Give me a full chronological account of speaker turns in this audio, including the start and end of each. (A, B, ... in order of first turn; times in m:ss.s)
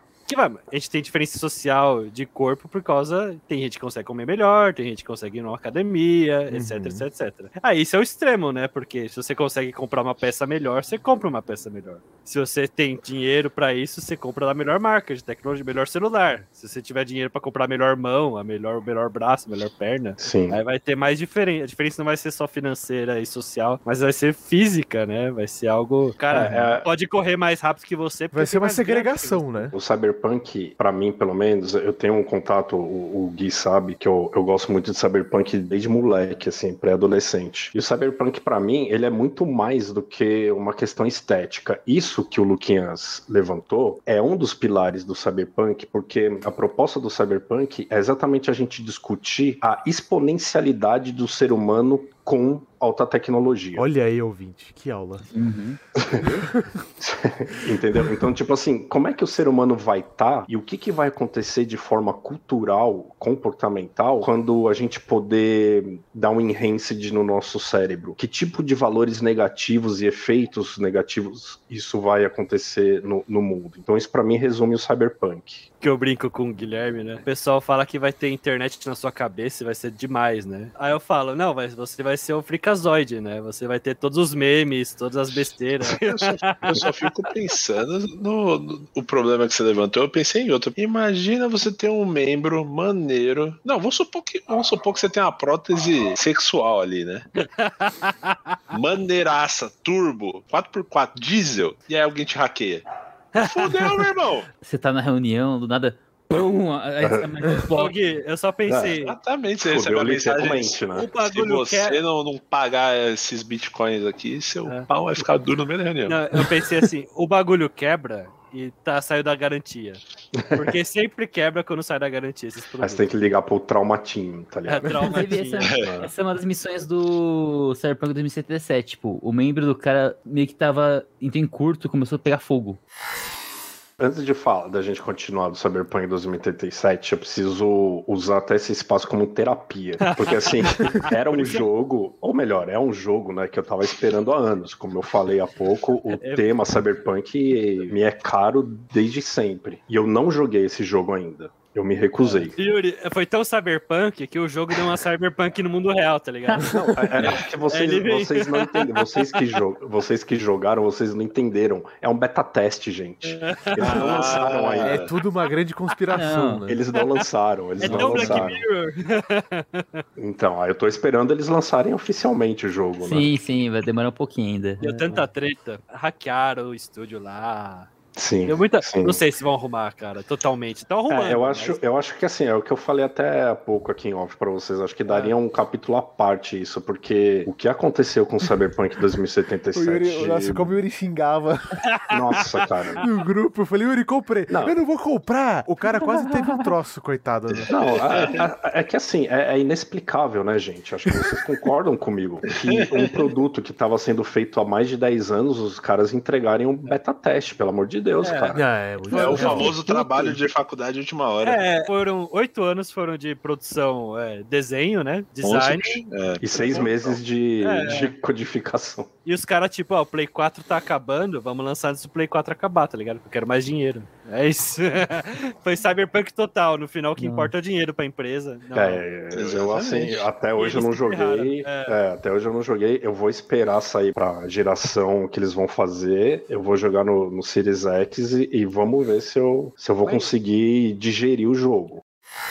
0:00.3-0:29.7 A
0:06.5-0:07.1 B
0:20.2-0:20.6 C
0:26.3-0:26.9 C
0:26.4-0:26.7 B
0:28.3-0:29.8 B
0:29.7-0:53.9 C
0:53.8-0:55.2 B
0:55.3-0:55.8 D
0:56.0-0:56.5 C
0:56.2-0:56.7 B
0:57.0-1:15.6 C
1:15.8-1:27.1 A
1:25.9-1:37.3 E
1:37.4-1:38.6 A
1:38.7-1:42.8 E
1:43.4-1:44.0 A
1:43.4-1:44.5 E
1:44.6-1:47.9 D
1:47.0-1:47.3 C
1:47.7-1:49.2 A
1:48.7-1:49.0 C
1:49.0-1:56.2 E
1:49.6-1:51.1 C
1:50.9-1:52.0 A
1:56.1-2:03.1 A
2:00.3-2:00.8 C
2:02.8-2:06.1 C
2:04.7-2:05.7 A
2:05.0-2:12.8 D
2:14.0-2:32.6 C
2:20.0-2:21.7 A
2:26.2-2:26.5 A
2:32.2-2:39.0 A
2:36.6-2:45.0 C
2:43.2-2:46.1 A
2:43.8-2:45.1 E
2:44.8-2:46.8 B
2:46.1-2:46.6 D
2:46.7-2:48.6 C
2:47.8-2:50.0 A
2:47.8-2:48.5 D
2:50.2-2:53.4 C
2:53.0-2:55.3 D
2:54.8-2:57.9 A
2:58.2-2:59.2 C
2:58.4-3:01.8 A
3:01.1-3:10.8 C
3:05.1-3:05.4 A
3:09.7-3:11.8 B
3:11.9-3:12.7 A
3:12.1-3:13.0 C
3:13.0-3:17.7 B
3:14.5-3:14.8 C
3:16.0-3:16.6 D
3:17.5-3:18.5 E
3:17.7-3:28.7 C
3:22.7-3:23.1 E
3:28.2-3:29.8 A
3:28.5-3:30.3 B
3:29.1-3:31.6 E
3:29.4-3:29.7 C
3:31.4-3:36.0 A
3:35.4-3:37.2 E
3:36.4-3:39.1 C
3:37.6-3:38.1 A
3:39.3-3:49.0 A
3:47.2-3:47.5 D
3:48.8-4:02.0 C
3:49.3-3:50.3 E
3:50.6-3:52.0 A
4:00.0-4:00.3 A